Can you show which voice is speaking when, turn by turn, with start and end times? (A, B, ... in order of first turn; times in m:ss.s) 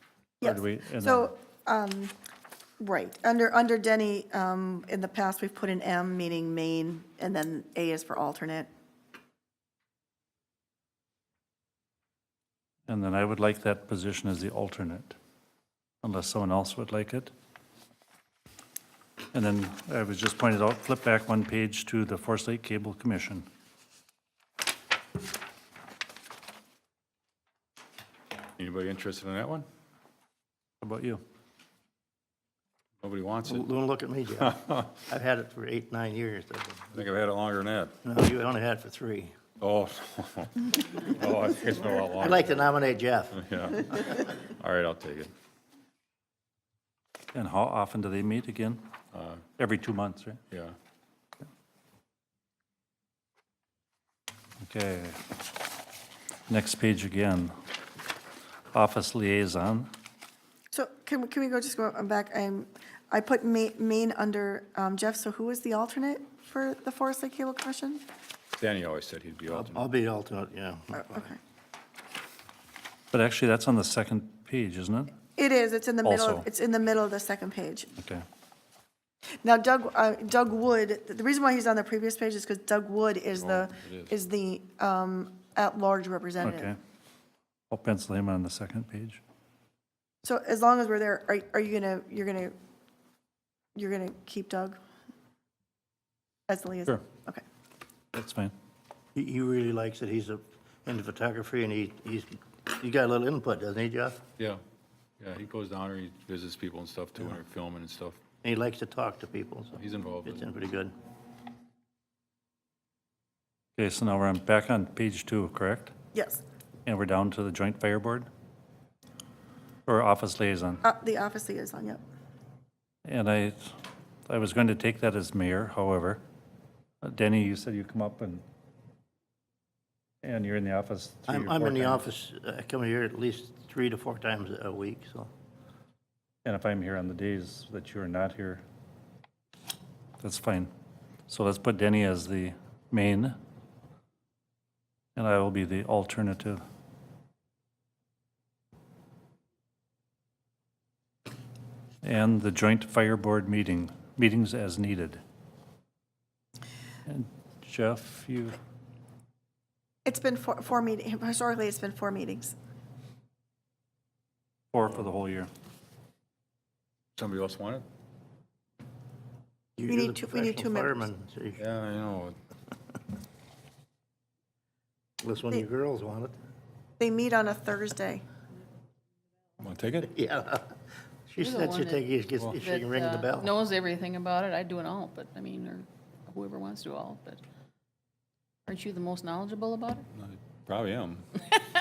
0:00.4-0:02.1 A
0:00.4-0:01.3 B
0:02.8-0:08.7 A
0:12.9-0:15.2 B
0:16.0-0:17.3 B
0:19.3-0:23.5 B
0:28.6-0:29.7 C
0:30.8-0:31.2 B
0:33.0-0:33.6 C
0:33.5-0:37.0 D
0:34.5-0:34.8 C
0:36.9-0:38.0 C
0:38.0-0:39.4 D
0:39.6-0:42.6 C
0:42.2-0:43.4 D
0:43.3-0:45.3 C
0:47.3-0:48.8 B
0:49.1-0:49.4 C
0:49.6-0:50.4 B
0:50.5-0:50.8 C
0:54.6-0:55.2 B
0:56.5-0:57.5 B
0:58.7-0:59.9 B
1:00.7-1:08.0 A
1:08.6-1:09.8 C
1:09.5-1:11.3 D
1:13.1-1:15.1 B
1:15.4-1:17.9 A
1:16.0-1:16.5 B
1:18.0-1:18.2 B
1:19.4-1:26.7 A
1:23.4-1:24.1 C
1:26.4-1:26.8 B
1:27.7-1:29.2 B
1:30.2-1:32.5 A
1:33.8-1:34.8 A
1:36.5-1:37.4 A
1:38.1-1:38.5 B
1:39.2-1:44.2 D
1:45.2-1:48.2 C
1:48.4-1:50.9 D
1:49.8-1:50.4 C
1:53.8-1:55.9 B
1:56.1-1:56.4 A
1:56.9-1:58.3 B
1:59.9-2:00.8 B
2:00.8-2:02.0 A
2:03.0-2:03.8 B
2:04.3-2:06.2 B
2:07.0-2:08.4 B
2:10.2-2:12.0 B
2:11.3-2:15.3 D
2:16.4-2:18.6 B
2:20.2-2:20.7 B
2:21.3-2:23.4 B
2:25.2-2:26.6 B
2:32.0-2:35.2 B
2:37.1-2:38.6 B
2:40.0-2:42.6 A
2:44.7-2:45.5 B
2:47.2-2:47.8 C
2:49.8-2:51.6 D
2:49.9-2:51.0 A
2:51.6-2:52.4 C
2:55.2-2:56.4 D
2:57.0-2:58.2 A
2:59.6-3:00.1 C
3:00.0-3:00.7 D
3:01.3-3:03.6 D
3:01.4-3:07.4 E
3:08.7-3:10.0 E
3:10.2-3:11.3 C